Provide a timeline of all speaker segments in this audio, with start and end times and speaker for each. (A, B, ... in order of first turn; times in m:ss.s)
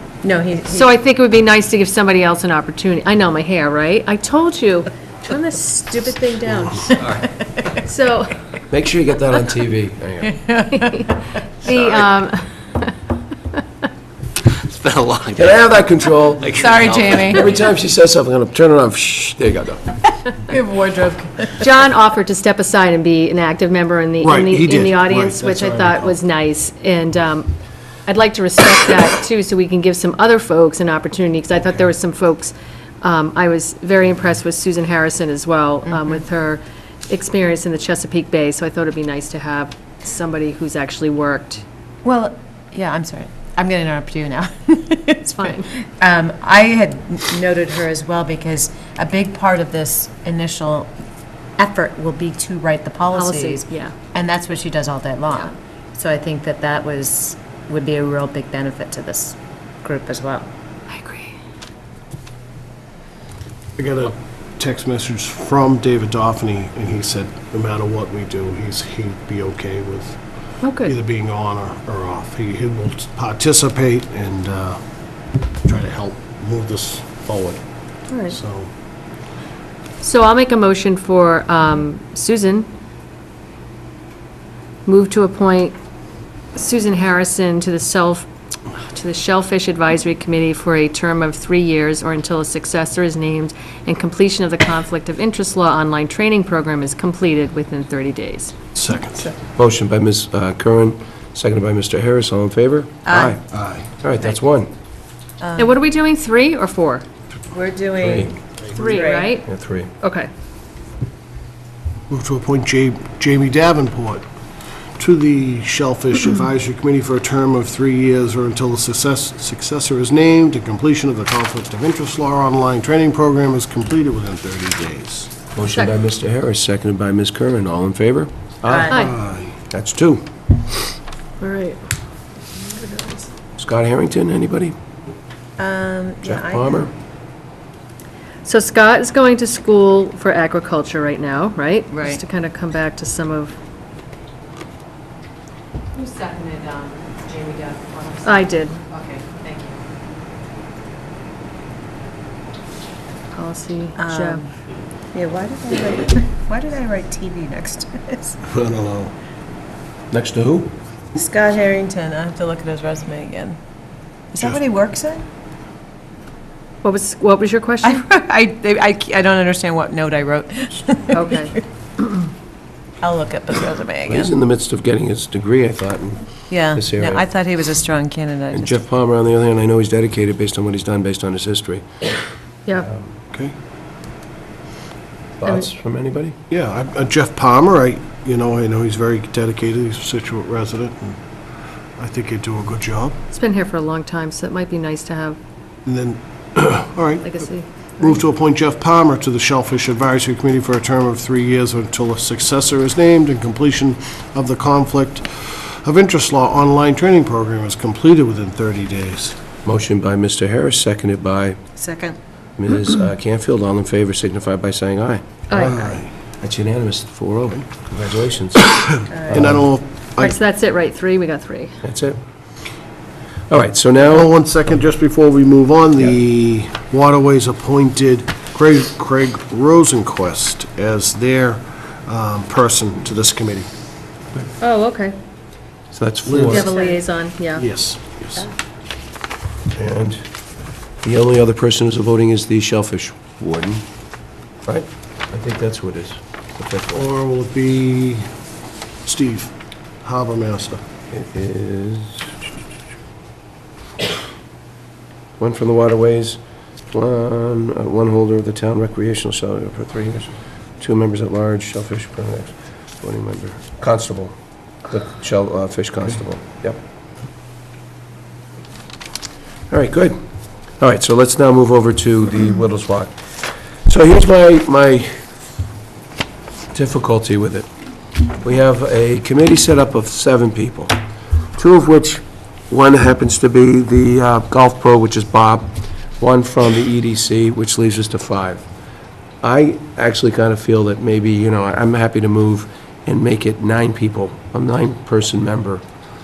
0:00.2-0:01.0 A
0:00.7-0:04.9 B
0:05.2-0:07.6 A
0:07.7-0:08.4 B
0:08.7-0:10.4 C
0:10.3-0:11.2 A
0:10.8-0:11.1 B
0:11.6-0:12.9 B
0:14.5-0:15.6 D
0:15.3-0:20.0 C
0:16.5-0:17.3 D
0:16.6-0:17.5 A
0:20.0-0:21.6 A
0:21.6-0:27.5 B
0:24.2-0:26.2 E
0:28.1-0:41.6 B
0:42.0-0:50.9 A
0:45.4-0:45.7 B
0:51.6-1:00.5 A
0:53.1-0:53.9 B
1:00.9-1:01.4 B
1:03.8-1:10.2 E
1:10.6-1:11.0 B
1:10.8-1:14.8 E
1:15.6-1:17.6 E
1:18.1-1:18.4 B
1:18.3-1:18.7 E
1:20.0-1:22.7 B
1:24.9-1:25.8 B
1:26.6-1:38.5 B
1:38.8-1:39.3 E
1:39.6-1:43.4 C
1:43.1-1:43.4 A
1:43.5-1:43.9 E
1:44.0-1:44.7 C
1:45.4-1:45.8 A
1:45.6-1:47.0 B
1:47.5-1:49.4 A
1:48.0-1:48.3 C
1:48.7-1:49.5 B
1:49.4-1:49.9 C
1:50.0-1:50.3 B
1:52.1-1:54.2 E
1:55.0-2:05.3 E
2:05.5-2:09.1 C
2:05.6-2:06.0 B
2:08.6-2:09.0 A
2:08.9-2:09.6 E
2:09.7-2:10.3 C
2:11.4-2:11.8 B
2:12.8-2:13.2 B
2:13.6-2:14.8 C
2:15.6-2:16.9 A
2:16.2-2:16.9 C
2:18.4-2:23.6 B
2:21.9-2:22.2 A
2:26.0-2:29.8 A
2:28.2-2:28.8 B
2:33.3-2:34.4 B
2:34.0-2:34.5 A
2:35.1-2:38.4 A
2:38.5-2:39.1 E
2:40.1-2:40.7 C
2:41.2-2:43.6 A
2:44.3-2:45.2 A
2:46.8-2:48.0 B
2:47.8-2:51.6 A
2:51.1-2:51.6 B
2:53.0-2:54.4 A
2:54.1-2:57.2 C
2:56.5-2:58.8 A
2:58.5-3:01.8 C
3:02.8-3:03.2 C
3:05.4-3:06.4 C
3:06.5-3:11.2 E
3:12.0-3:13.2 E
3:13.3-3:15.4 B
3:15.9-3:17.4 E
3:17.2-3:18.2 B
3:18.0-3:29.4 E
3:29.6-3:31.6 C
3:31.8-3:32.2 A
3:32.6-3:38.8 C
3:35.5-3:35.8 B
3:35.6-3:36.1 E
3:38.7-3:40.4 E
3:39.1-3:39.6 A
3:39.3-3:39.8 C
3:40.2-3:41.8 B
3:41.8-3:42.2 C
3:43.5-3:44.3 C
3:44.0-3:53.7 E
3:54.6-3:55.2 B
3:55.9-3:56.7 C
3:56.2-3:56.7 E
3:56.5-3:57.7 B
3:56.6-3:57.0 A
3:57.6-3:58.4 E
3:59.7-4:00.2 C
4:01.0-4:03.8 C
4:04.7-4:07.1 C
4:06.9-4:08.3 E
4:09.0-4:09.5 E
4:10.0-4:10.8 E
4:11.1-4:12.3 C
4:15.4-4:16.4 C
4:16.9-4:24.4 C
4:24.9-4:26.8 C
4:29.7-4:30.2 C
4:30.8-4:33.1 C
4:33.9-4:35.2 C
4:36.7-4:37.7 C
4:38.4-4:41.0 C
4:41.6-4:48.6 C
4:49.4-4:55.8 C